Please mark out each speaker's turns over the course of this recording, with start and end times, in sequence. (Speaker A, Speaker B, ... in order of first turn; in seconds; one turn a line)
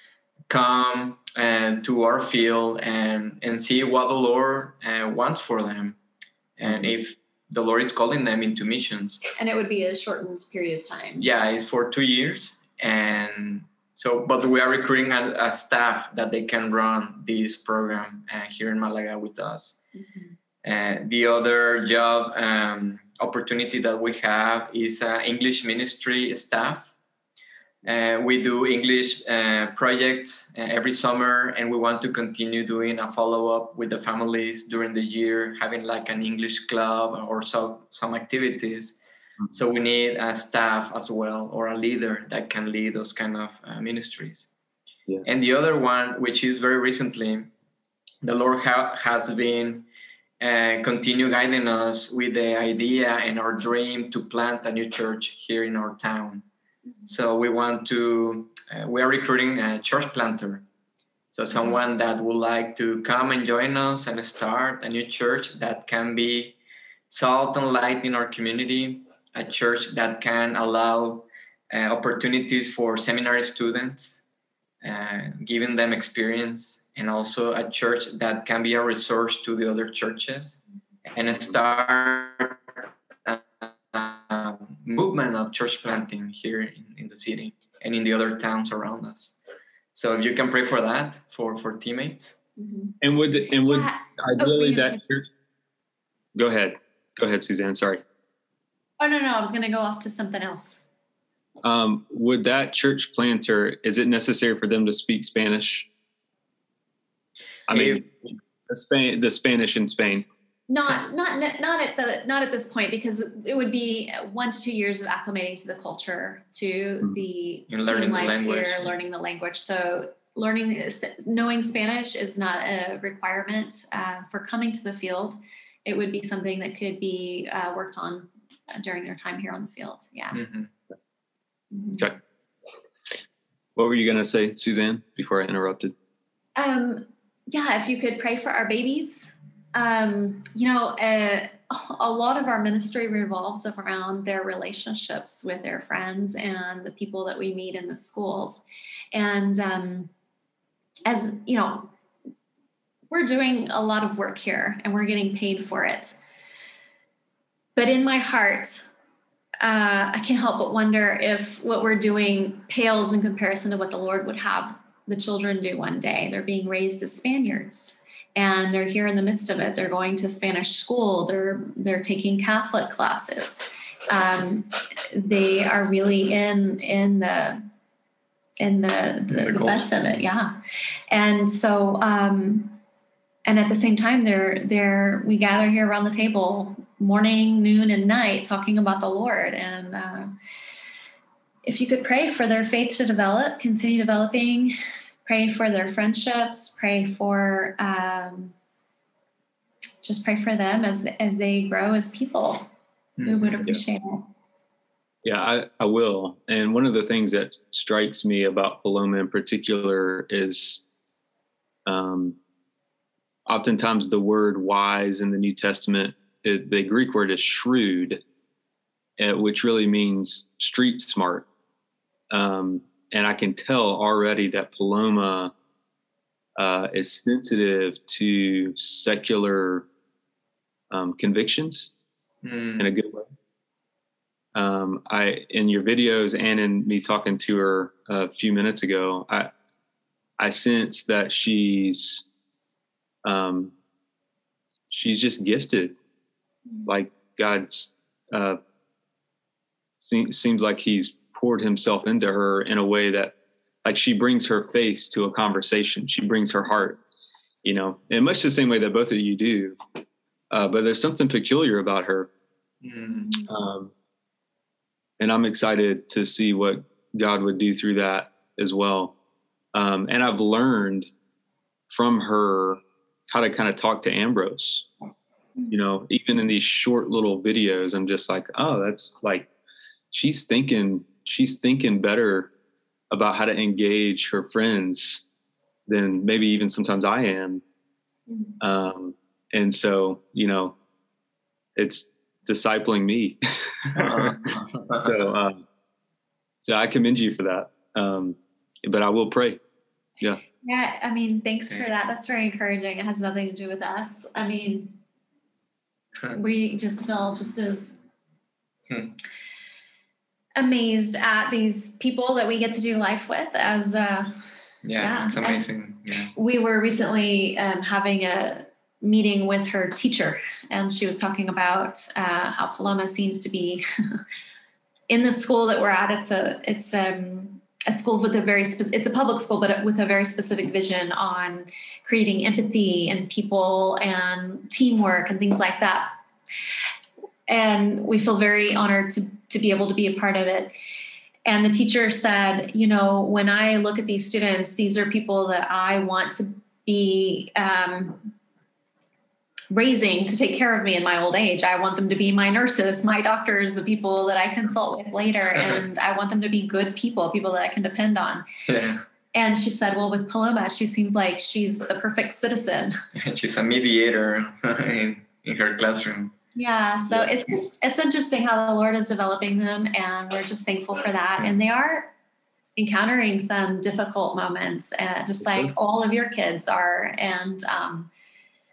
Speaker A: 0.5-6.0
Speaker A: 6.6-9.2
Speaker B: 6.7-6.9
Speaker C: 9.3-11.3
Speaker A: 11.2-19.8
Speaker C: 19.9-20.3
Speaker A: 20.6-26.9
Speaker A: 27.8-39.0
Speaker A: 39.5-44.5
Speaker A: 45.2-47.5
Speaker A: 48.2-49.9
Speaker A: 50.4-56.4
Speaker A: 57.1-60.6
Speaker A: 61.3-66.5
Speaker A: 67.1-74.2
Speaker A: 74.8-89.3
Speaker A: 89.9-92.4
Speaker C: 92.6-93.0
Speaker B: 93.0-95.3
Speaker C: 93.5-95.0
Speaker B: 96.3-98.0
Speaker C: 99.0-100.8
Speaker B: 101.6-105.9
Speaker B: 107.7-110.2
Speaker A: 107.7-108.0
Speaker C: 110.7-130.4
Speaker A: 117.7-118.9
Speaker A: 130.3-130.7
Speaker C: 131.7-132.1
Speaker B: 133.8-135.9
Speaker C: 136.6-150.1
Speaker C: 151.1-151.9
Speaker C: 153.1-156.2
Speaker C: 157.8-158.9
Speaker C: 159.6-177.6
Speaker C: 178.6-180.6
Speaker A: 179.3-180.2
Speaker C: 181.1-182.8
Speaker C: 183.4-190.3
Speaker C: 191.6-198.5
Speaker C: 200.0-202.7
Speaker A: 203.2-203.6
Speaker C: 203.2-204.3
Speaker B: 205.2-210.8
Speaker B: 211.8-212.4
Speaker B: 213.5-218.2
Speaker B: 219.2-221.5
Speaker B: 222.3-225.5
Speaker B: 226.6-229.9
Speaker B: 230.9-231.9
Speaker A: 232.4-232.9
Speaker B: 232.8-233.3
Speaker B: 234.5-239.5
Speaker B: 240.4-242.2
Speaker B: 243.2-243.7
Speaker B: 244.9-245.9
Speaker B: 246.8-248.6
Speaker B: 250.0-257.0
Speaker B: 257.6-259.8
Speaker B: 260.5-262.3
Speaker A: 262.8-263.4
Speaker C: 263.1-263.4
Speaker B: 263.4-263.9
Speaker B: 265.2-269.1
Speaker B: 269.7-271.1
Speaker B: 271.9-274.9
Speaker B: 275.7-279.5
Speaker B: 280.1-282.5
Speaker B: 283.1-285.2
Speaker B: 285.9-287.6
Speaker C: 288.3-288.6
Speaker B: 288.6-290.7
Speaker B: 291.8-295.6
Speaker A: 293.9-295.1
Speaker B: 296.6-299.6
Speaker C: 300.6-305.0
Speaker C: 306.3-307.9
Speaker A: 308.9-309.1
Speaker C: 310.6-314.3
Speaker A: 314.8-316.3
Speaker C: 315.0-315.6
Speaker C: 316.4-324.2
Speaker C: 325.1-336.2
Speaker C: 337.5-340.7
Speaker C: 341.4-348.3
Speaker C: 349.7-358.5
Speaker A: 358.7-359.0
Speaker C: 359.3-363.0
Speaker A: 363.1-366.3
Speaker C: 366.6-372.1
Speaker C: 372.8-378.1
Speaker B: 375.4-375.7